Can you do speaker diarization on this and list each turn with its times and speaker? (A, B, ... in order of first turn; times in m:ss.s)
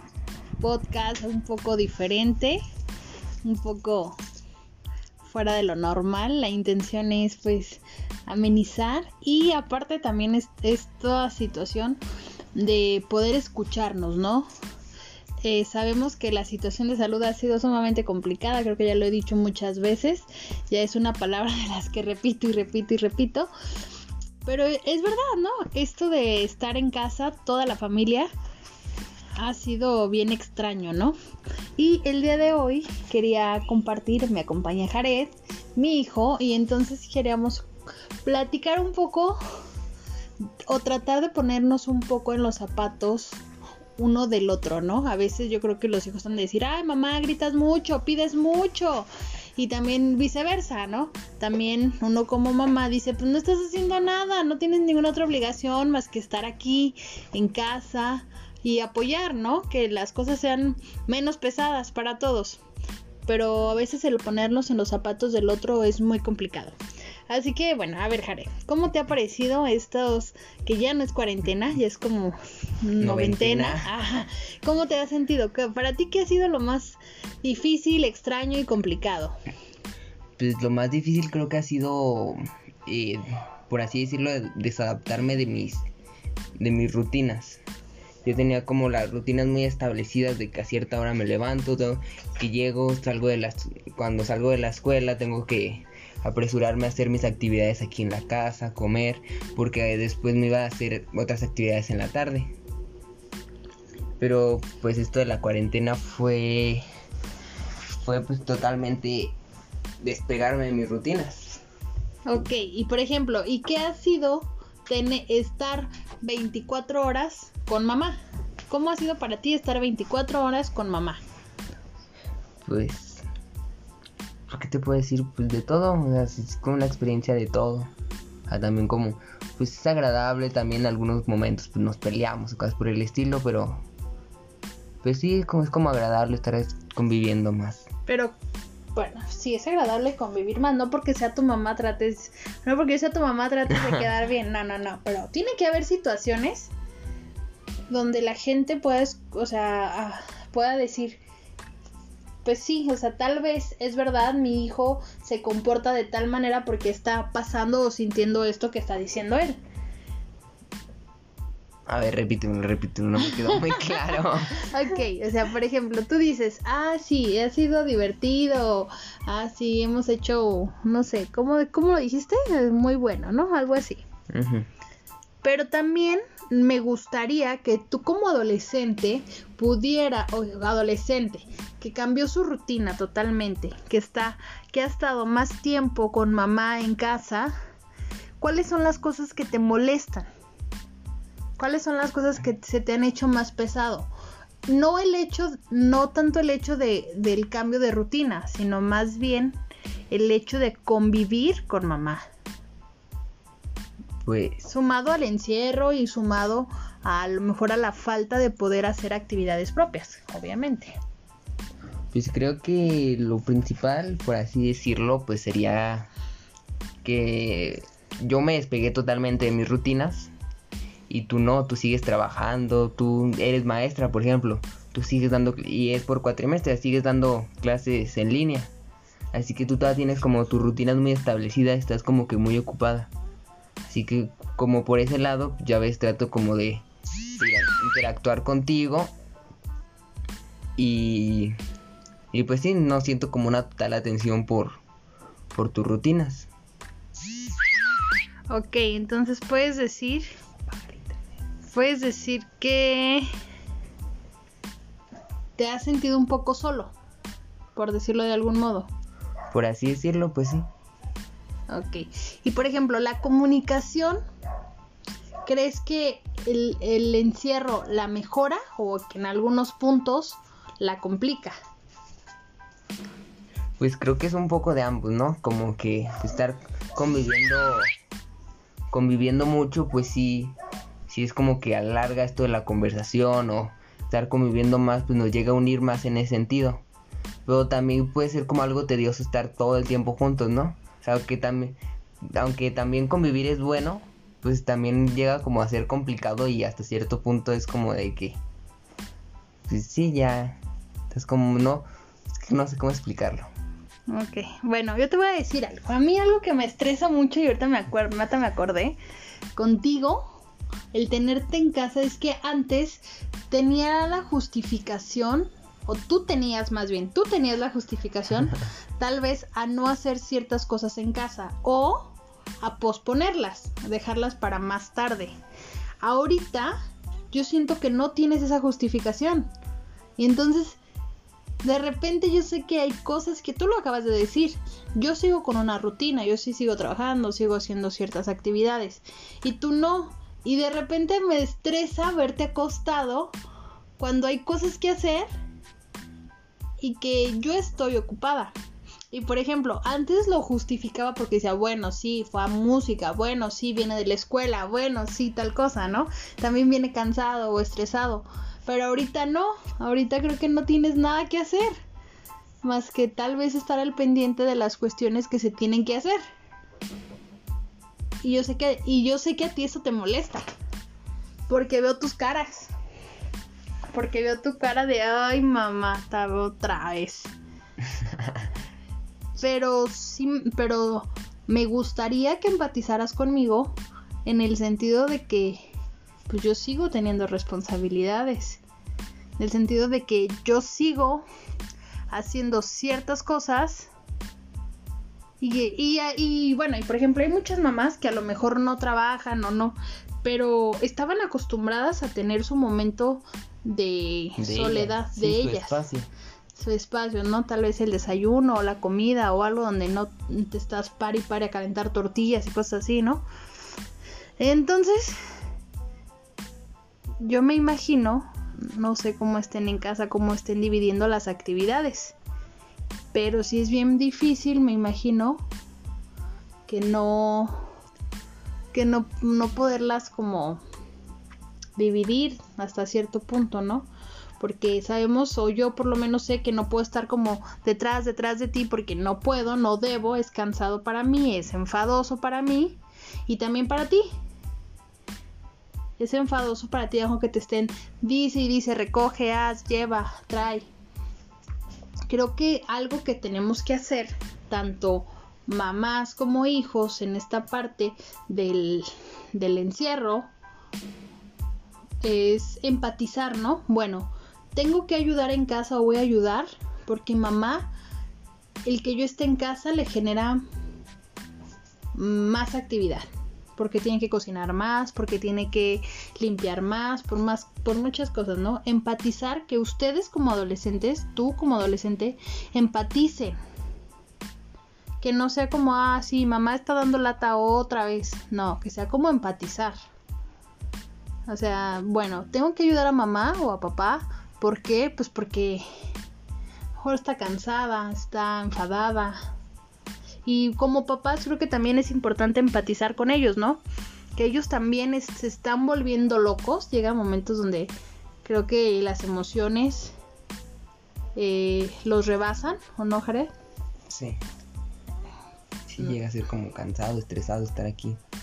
0:00.6-0:02.6 A
0:03.4-0:04.2 A
0:05.2-0:12.0 A
0:12.6-0:14.5 A
0:15.4-0:23.5 A
0:24.4-0:28.3 A
0:29.4-0:31.2 A
0:31.8-0:37.6 A
0:38.2-0:39.4 A
0:40.7-0:43.4 A
0:44.0-1:02.6 A
1:03.2-1:06.8 A
1:07.3-1:19.3 A
1:13.0-1:13.9 B
1:20.4-1:25.8 B
1:26.6-1:27.6 B
1:28.2-1:42.5 B
1:44.2-1:46.8 B
1:48.0-1:49.3 B
1:50.0-1:51.6 B
1:52.2-1:58.2 A
1:58.7-2:01.2 A
2:02.6-2:03.2 B
2:04.5-2:07.9 B
2:08.5-2:13.8 B
2:15.0-2:17.9 B
2:18.1-2:18.3 A
2:18.9-2:26.7 A
2:27.9-2:31.2 A
2:32.4-2:39.6 A
2:41.9-2:44.7 B
2:44.6-2:54.0 A
2:54.3-2:54.7 B
2:55.4-3:07.5 A
3:08.4-3:10.3 A
3:11.6-3:14.1 A
3:14.7-3:19.6 A
3:20.1-3:22.2 A
3:24.2-3:24.6 B
3:24.6-3:31.0 A
3:32.1-3:36.1 B
3:37.0-3:40.3 B
3:41.1-3:48.7 B
3:49.3-3:53.1 B
3:53.9-3:56.8 B
3:57.4-3:59.1 B
4:00.8-4:01.5 B
4:02.3-4:04.8 B
4:05.5-4:06.5 B
4:08.5-4:10.3 A
4:11.6-4:13.2 A
4:15.6-4:16.9 A
4:17.7-4:18.9 A
4:19.5-4:20.7 B
4:21.7-4:24.2 A
4:25.4-4:31.6 A
4:33.8-4:37.8 B
4:38.9-4:40.5 B
4:41.1-4:46.8 B
4:47.4-4:51.8 B
4:52.3-4:58.4 B
4:59.7-5:00.6 B
5:01.1-5:03.5 B
5:04.1-5:09.0 A
5:09.6-5:10.2 A
5:10.9-5:25.3 A
5:26.0-5:26.7 A
5:27.3-5:29.5 A
5:30.2-5:30.8 A
5:31.6-5:43.4 A
5:44.0-5:45.3 A
5:46.8-5:48.5 A
5:49.1-6:01.7 A
6:02.6-6:06.2 A
6:08.2-6:10.4 A
6:11.5-6:12.7 A
6:13.9-6:17.3 A
6:19.4-6:23.7 A
6:24.2-6:25.7 A
6:26.3-6:28.6 A
6:29.4-6:31.2 A
6:32.1-6:33.9 A
6:35.4-6:45.8 A
6:44.4-6:46.1 B
6:46.5-6:53.2 A
6:54.4-6:55.2 A
6:57.2-7:02.1 A
7:03.1-7:05.4 A
7:06.7-7:07.6 A
7:08.7-7:10.6 A
7:11.8-7:13.9 A
7:14.4-7:24.0 A
7:26.0-7:30.7 A
7:32.1-7:40.3 A
7:42.0-7:47.7 A
7:48.6-7:50.4 A
7:51.9-8:03.4 A
8:05.0-8:09.8 A
8:11.3-8:15.6 A
8:16.8-8:19.2 A
8:20.2-8:23.6 A
8:24.2-8:27.7 A
8:28.2-8:29.9 A
8:31.2-8:33.3 A
8:33.9-8:34.2 B
8:35.7-8:38.0 B